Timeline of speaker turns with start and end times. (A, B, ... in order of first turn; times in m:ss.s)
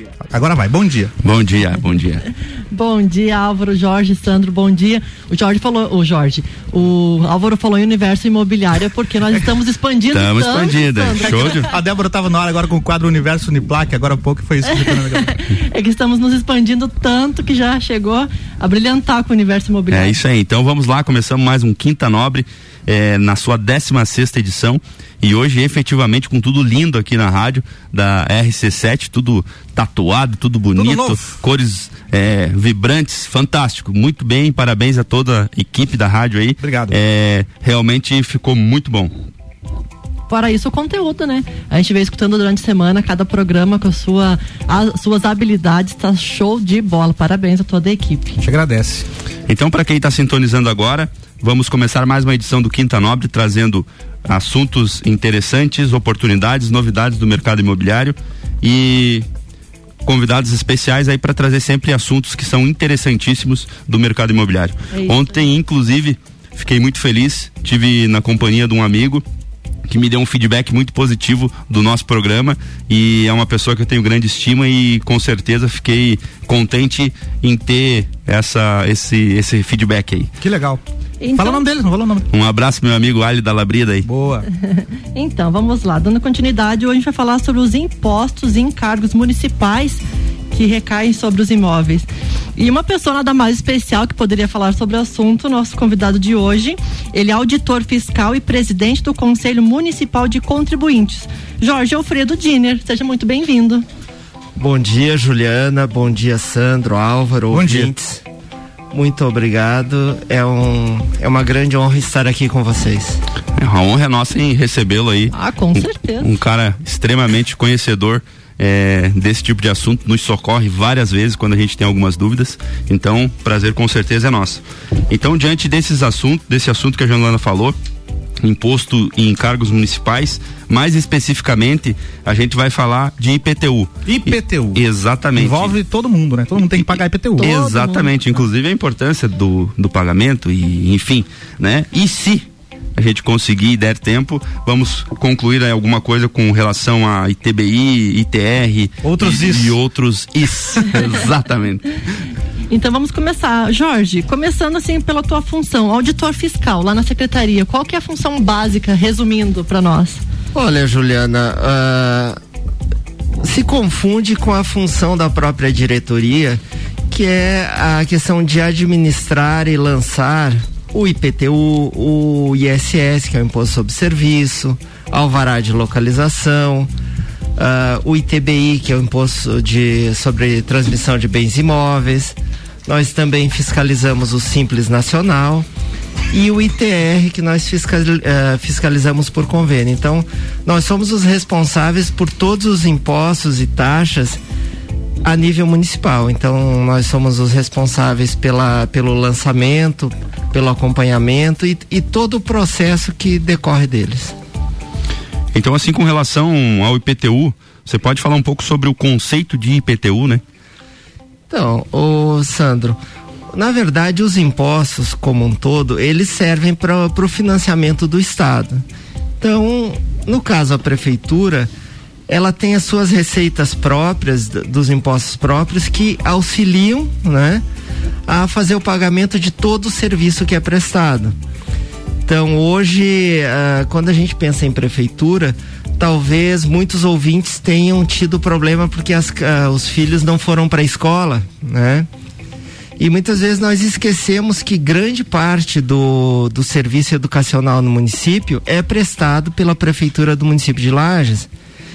0:00.3-0:01.1 A
0:01.2-0:02.3 B
0:02.7-0:11.6 C
0:10.1-0:11.7 B
0:11.2-0:15.4 A
0:15.0-0:20.2 C
0:19.9-0:39.1 B
0:30.8-0:31.4 A
0:36.6-0:37.0 A
0:40.3-0:48.4 C
0:48.4-0:49.1 A
0:49.5-0:59.3 B
1:00.0-1:09.2 B
1:04.9-1:05.4 C
1:09.9-1:20.3 B
1:20.4-1:20.8 A
1:21.2-1:21.7 C
1:21.4-1:22.3 A
1:22.3-1:24.1 B
1:24.0-1:24.5 A
1:24.6-1:43.9 C
1:44.6-1:48.2 D
1:47.5-1:47.9 A
1:48.9-1:53.2 D
1:53.6-2:07.8 B
1:55.3-1:56.3 C
2:08.4-2:15.8 B
2:14.1-2:14.8 A
2:15.4-2:17.5 A
2:16.8-2:22.5 B
2:17.4-2:18.1 C
2:23.0-2:32.0 B
2:29.0-2:29.8 A
2:32.7-2:40.2 C
2:40.5-2:42.4 D
2:43.4-2:56.9 D
2:57.6-3:05.7 D
3:06.3-3:14.4 D
3:15.2-3:24.4 D
3:25.5-3:30.4 B
3:31.5-3:33.0 D
3:33.5-3:38.8 D
3:39.4-3:41.7 D
3:42.3-3:47.6 D
3:48.3-3:51.4 D
3:52.3-4:02.1 D
4:03.0-4:11.5 D